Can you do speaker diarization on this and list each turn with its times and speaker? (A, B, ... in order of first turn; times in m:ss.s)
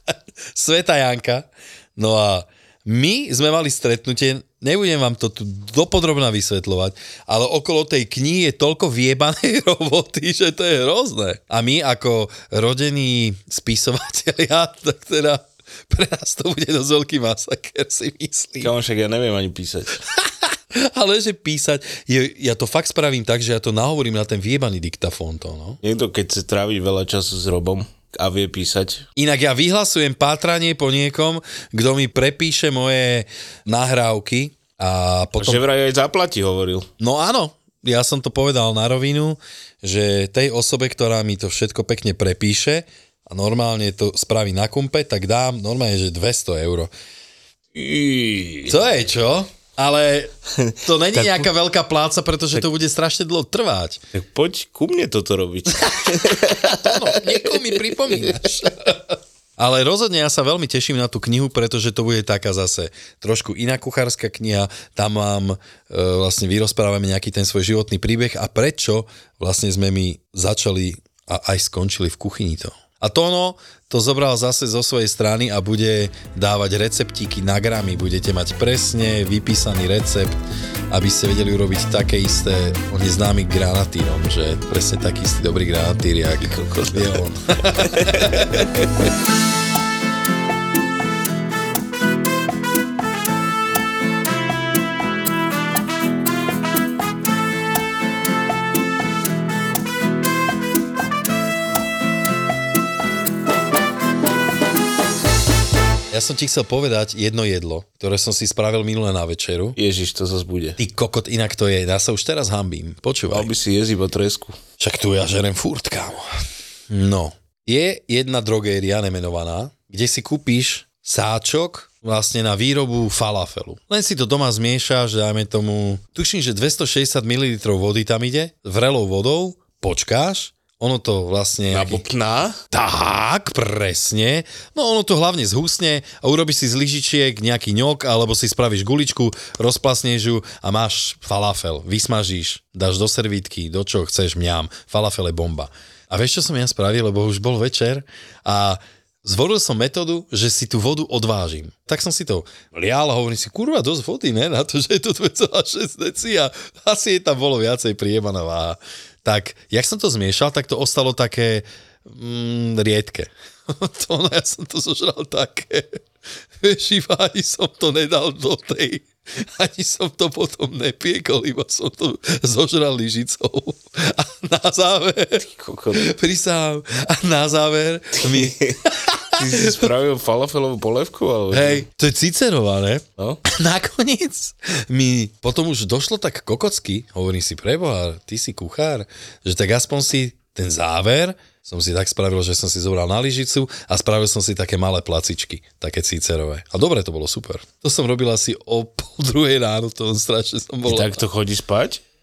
0:00.5-0:18.7 A
0:18.6-0:20.0 B
0:20.1-0:25.8 A
0:25.8-0:29.0 B
0:29.2-0:35.6 A
0:35.4-0:36.9 B
0:37.0-0:46.9 A
0:47.7-0:48.8 B
0:48.7-0:54.0 A
0:50.5-0:51.5 B
0:54.1-0:58.4 B
0:55.9-1:28.7 A
1:26.4-1:27.2 B
1:27.8-1:28.9 B
1:46.1-1:49.8 A
1:49.8-1:50.8 B
1:50.8-1:53.5 A
1:53.3-1:54.6 B
1:54.8-1:56.3 A
1:56.9-2:12.0 A
2:11.7-2:12.6 B
2:12.7-2:46.0 A
2:46.6-2:59.9 A
2:55.4-2:56.1 B
2:58.2-3:01.8 B
3:01.5-3:21.2 A
3:20.8-3:22.0 B